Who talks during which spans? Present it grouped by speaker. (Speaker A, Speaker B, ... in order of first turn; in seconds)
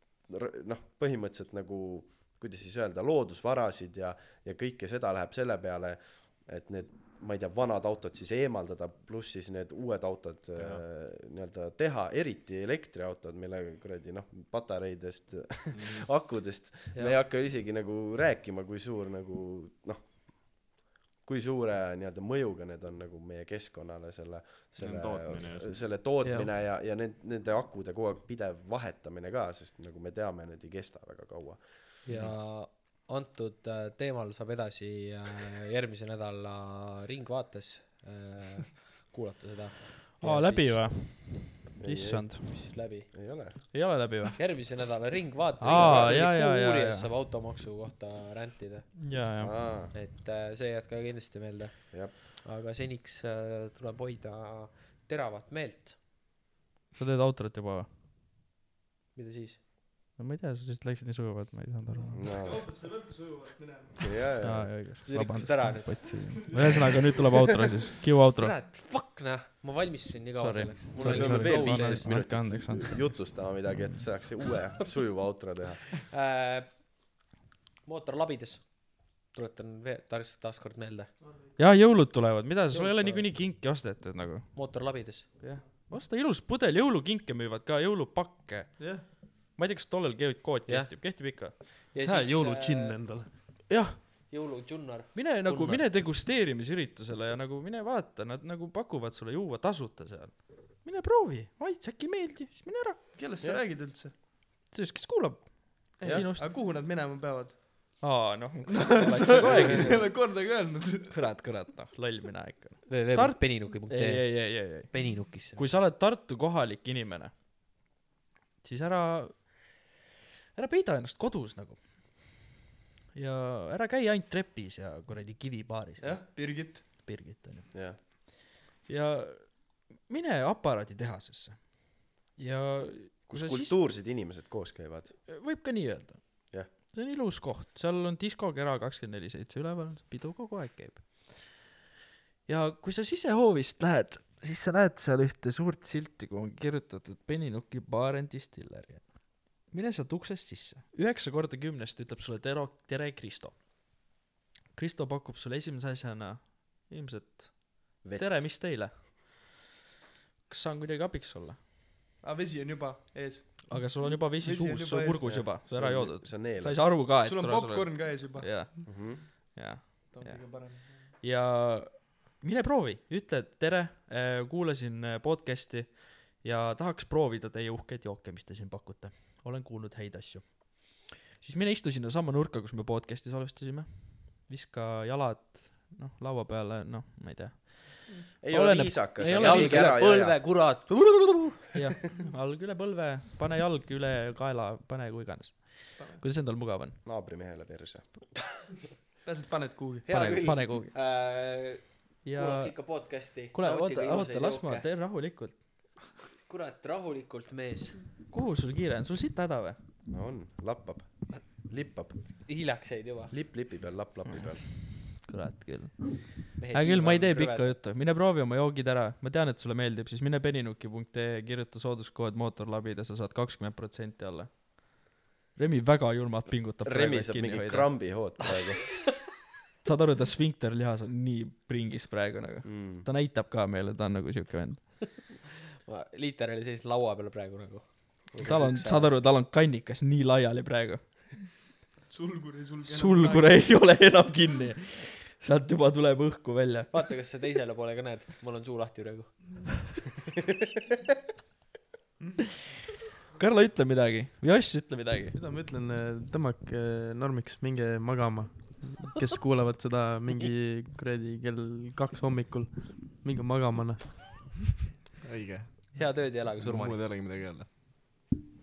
Speaker A: 0.3-20.6, 21.2-31.7, 41.8-44.2, 45.6-46.3, 49.4-50.0, 62.1-62.7, 64.0-65.0, 71.0-75.9, 127.7-128.0, 133.3-135.2, 158.0-158.5, 165.2-167.0, 168.8-169.3, 188.4-190.7, 197.0-198.1, 210.1-212.3, 213.3-214.7, 226.8-229.0, 232.6-233.1
Speaker B: 15.7-16.0, 24.8-25.9, 32.1-32.4, 265.2-267.7
Speaker C: 32.0-40.9, 42.4-43.8, 44.4-49.0, 49.9-56.0, 59.1-59.6, 65.0-66.8, 68.3-72.1, 75.9-76.8, 77.8-81.1, 82.7-83.3, 84.5-85.4, 90.7-93.0, 94.3-95.9, 112.9-115.6, 189.2-191.5, 200.1-204.9, 206.4-208.0, 212.4-213.3, 216.6-217.8, 235.8-239.2, 246.9-249.9, 265.9-267.0
Speaker D: 40.2-42.5, 43.7-44.4, 45.6-47.1, 49.0-49.6, 57.0-57.9, 60.2-62.2, 64.4-68.5, 70.3-74.0, 81.6-84.6, 85.4-91.6, 93.7-94.3, 95.1-103.1, 104.7-106.6, 108.0-110.2, 111.1-114.9, 115.5-117.3, 118.6-119.7, 120.5-122.3, 123.1-131.8, 132.4-133.8, 135.3-141.6, 142.5-153.6, 154.7-159.5, 160.5-161.6, 163.7-190.0, 191.7-197.0, 200.1-200.9, 202.2-203.0, 203.5-205.6, 208.3-209.8, 214.7-227.9, 229.8-235.1, 238.4-241.5, 242.8-247.1, 253.3-255.4
Speaker E: 62.2-64.2, 66.3-67.1, 81.2-81.5, 88.8-89.0, 92.0-93.3, 103.2-104.1, 106.0-108.0, 108.7-111.2, 126.0-126.9, 162.2-165.3, 167.1-168.8, 170.1-171.0, 199.2-200.1, 242.1-243.6, 255.3-264.5